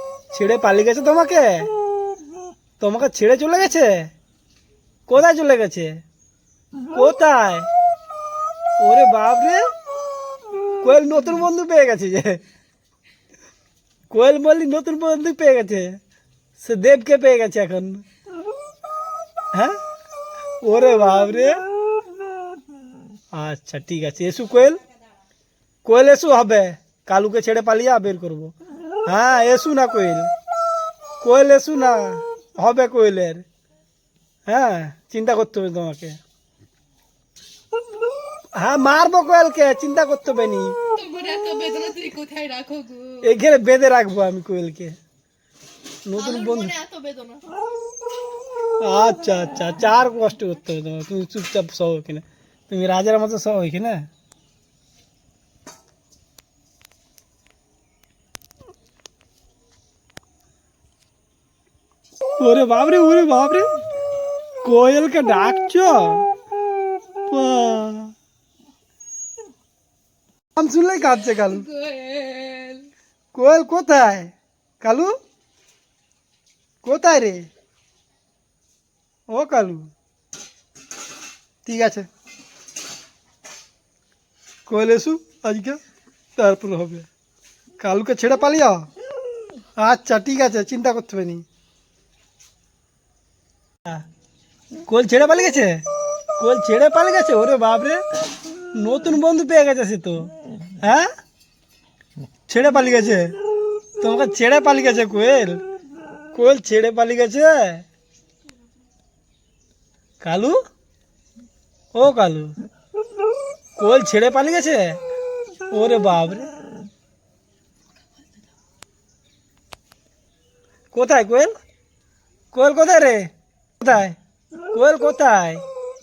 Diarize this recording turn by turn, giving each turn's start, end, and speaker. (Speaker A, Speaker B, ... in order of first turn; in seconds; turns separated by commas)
Speaker A: 0.3-1.7, Speaker A: 2.8-4.1, Speaker A: 5.1-6.0, Speaker A: 6.9-7.7, Speaker A: 8.8-9.6, Speaker A: 10.8-12.4, Speaker A: 14.1-16.0, Speaker A: 16.6-18.0, Speaker A: 20.6-21.6, Speaker A: 23.3-24.8, Speaker A: 25.8-28.5, Speaker A: 29.1-30.3, Speaker A: 31.2-33.4, Speaker A: 34.5-36.2, Speaker A: 38.5-40.8, Speaker B: 40.9-43.3, Speaker A: 43.2-45.0, Speaker A: 46.0-46.7, Speaker B: 46.2-47.5, Speaker A: 48.8-54.1, Speaker A: 62.4-63.7, Speaker A: 64.6-66.3, Speaker A: 67.3-68.1, Speaker A: 70.5-71.7, Speaker B: 71.1-72.9, Speaker A: 73.3-75.2, Speaker A: 76.8-77.5, Speaker A: 79.3-79.9, Speaker A: 81.6-82.1, Speaker A: 84.7-85.8, Speaker A: 86.4-87.1, Speaker A: 87.8-88.9, Speaker A: 89.8-91.4, Speaker A: 94.9-95.8, Speaker A: 96.4-98.0, Speaker A: 98.7-101.1, Speaker A: 102.5-103.3, Speaker A: 104.0-105.6, Speaker A: 106.3-107.8, Speaker A: 110.2-110.6, Speaker A: 111.9-112.5, Speaker A: 113.8-115.0, Speaker A: 115.7-116.5, Speaker A: 120.9-121.5, Speaker A: 122.5-123.3, Speaker A: 123.8-124.2, Speaker A: 124.7-125.6